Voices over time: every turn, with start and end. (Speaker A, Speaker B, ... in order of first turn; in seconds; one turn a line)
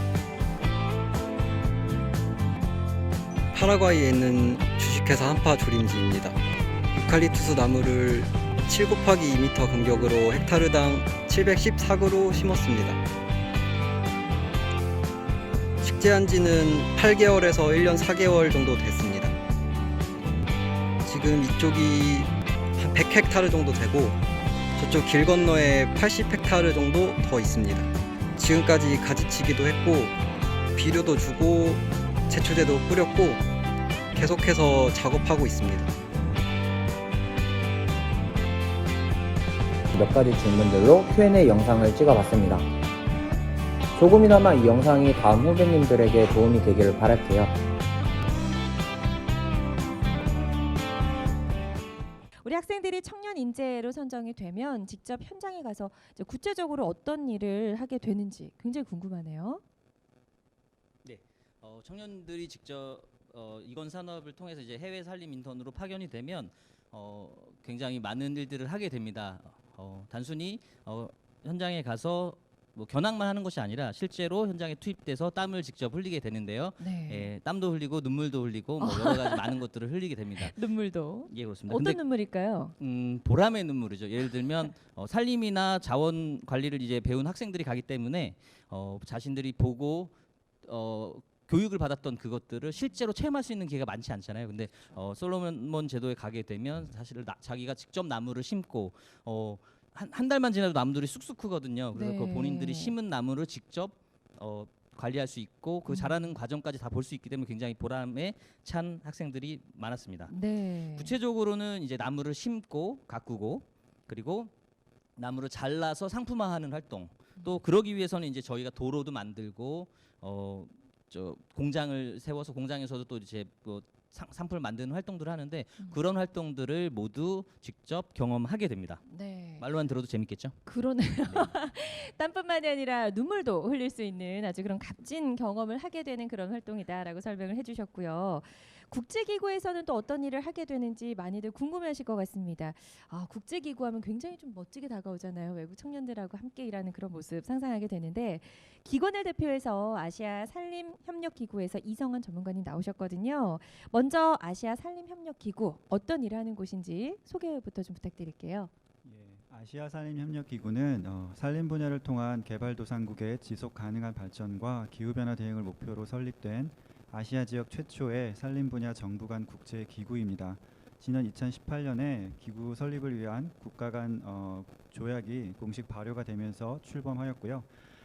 Speaker A: 3.5-6.4
Speaker A: 6.9-13.0
Speaker A: 15.8-19.4
Speaker A: 21.0-24.2
Speaker A: 24.8-30.1
Speaker A: 30.8-33.4
Speaker A: 34.1-35.9
Speaker B: 39.9-42.7
Speaker B: 44.0-47.5
Speaker C: 52.4-59.6
Speaker D: 61.0-80.6
Speaker C: 76.8-77.3
Speaker C: 78.8-79.5
Speaker C: 80.4-82.7
Speaker D: 81.3-82.0
Speaker D: 82.8-90.1
Speaker D: 90.6-110.4
Speaker C: 101.9-103.0
Speaker C: 105.9-106.2
Speaker C: 110.3-111.2
Speaker D: 110.9-114.5
Speaker D: 115.2-131.6
Speaker C: 129.1-129.7
Speaker C: 130.7-158.7
Speaker E: 159.0-177.7